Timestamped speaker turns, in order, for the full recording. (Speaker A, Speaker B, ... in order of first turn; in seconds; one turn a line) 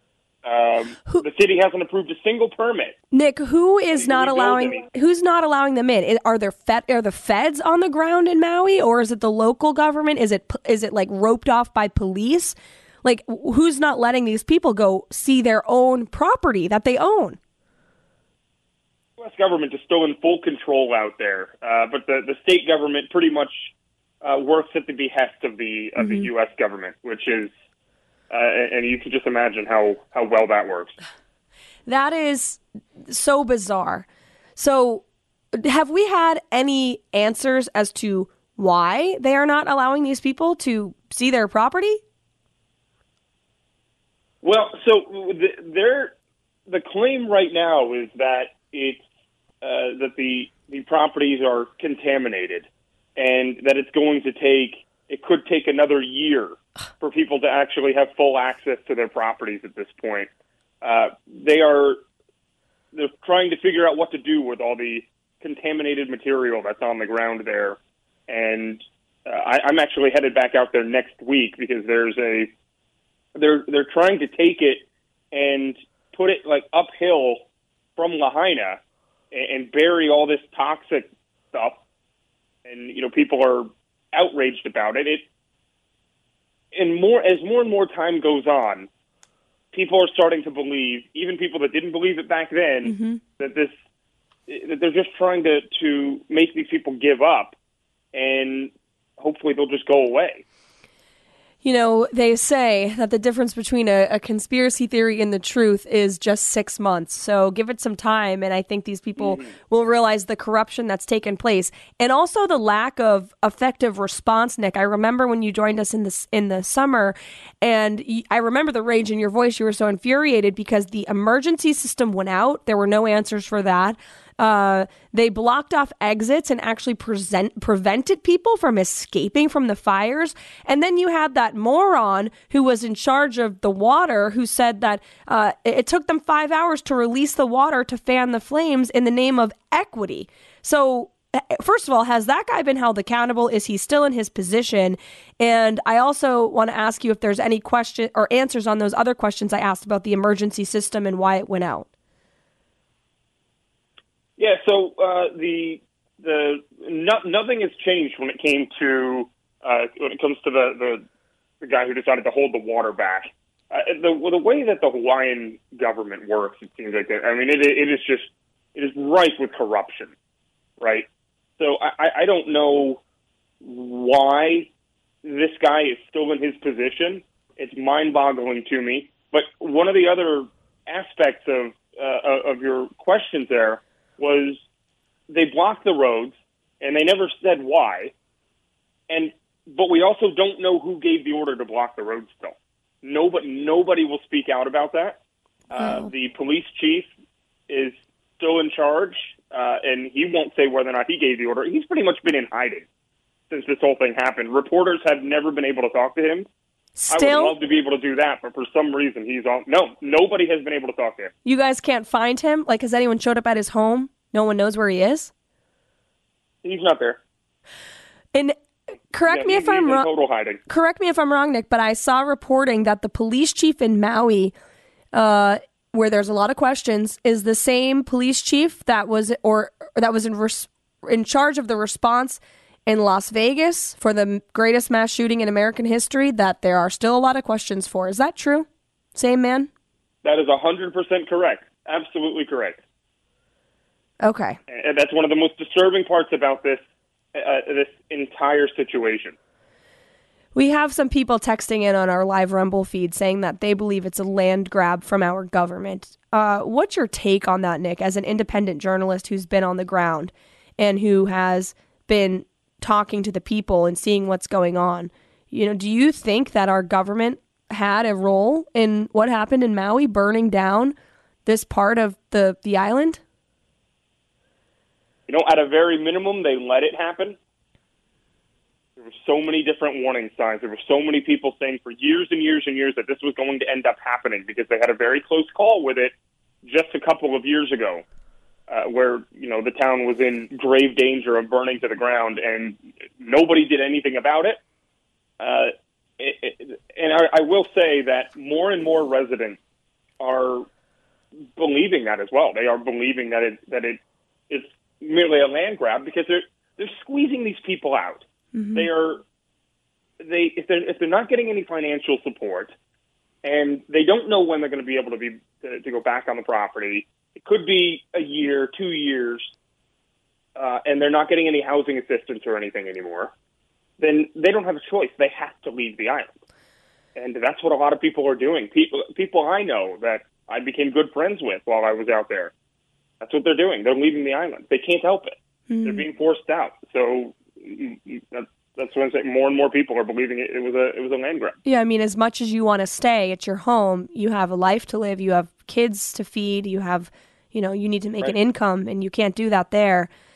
Speaker A: 0.4-3.0
Speaker B: 3.1-17.4
Speaker A: 4.0-4.8
Speaker A: 19.2-23.7
Speaker A: 24.2-27.5
Speaker B: 26.0-26.3
Speaker A: 28.3-30.9
Speaker B: 31.9-34.0
Speaker B: 34.6-42.0
Speaker A: 44.4-46.1
Speaker A: 46.7-49.0
Speaker A: 49.6-60.3
Speaker A: 60.8-62.0
Speaker A: 62.9-72.5
Speaker A: 73.4-77.5
Speaker A: 78.0-78.8
Speaker A: 79.3-81.8
Speaker A: 82.7-85.2
Speaker A: 86.7-88.9
Speaker A: 89.7-93.7
Speaker B: 92.8-93.2
Speaker A: 94.5-97.5
Speaker A: 98.1-100.4
Speaker B: 101.6-151.9
Speaker A: 109.2-109.5
Speaker A: 154.4-161.0
Speaker A: 161.6-170.1
Speaker A: 170.8-171.1
Speaker A: 171.6-173.0
Speaker A: 173.6-174.7
Speaker A: 175.2-184.6
Speaker A: 185.3-188.1
Speaker A: 189.1-195.2
Speaker A: 195.7-197.1
Speaker B: 195.8-196.1
Speaker A: 197.7-202.8
Speaker A: 203.5-206.5
Speaker B: 207.0-207.6
Speaker A: 207.1-211.3
Speaker B: 211.4-215.3
Speaker A: 216.6-217.2
Speaker B: 219.1-220.1
Speaker A: 219.3-220.6
Speaker B: 220.7-224.5
Speaker B: 225.1-239.7
Speaker A: 240.2-242.8
Speaker B: 244.2-244.6
Speaker A: 244.7-246.8
Speaker A: 247.3-249.3
Speaker B: 250.6-270.9
Speaker B: 271.5-273.2
Speaker A: 275.3-277.4
Speaker A: 279.0-286.1
Speaker A: 286.6-288.0
Speaker A: 288.7-294.6
Speaker A: 295.4-299.6
Speaker A: 300.2-300.7
Speaker A: 301.6-309.2
Speaker B: 308.6-308.9
Speaker A: 310.2-312.7
Speaker A: 313.4-319.5
Speaker A: 320.6-323.3
Speaker A: 324.0-326.3
Speaker A: 327.1-332.5
Speaker A: 333.2-341.6
Speaker B: 335.7-336.1
Speaker B: 341.7-350.1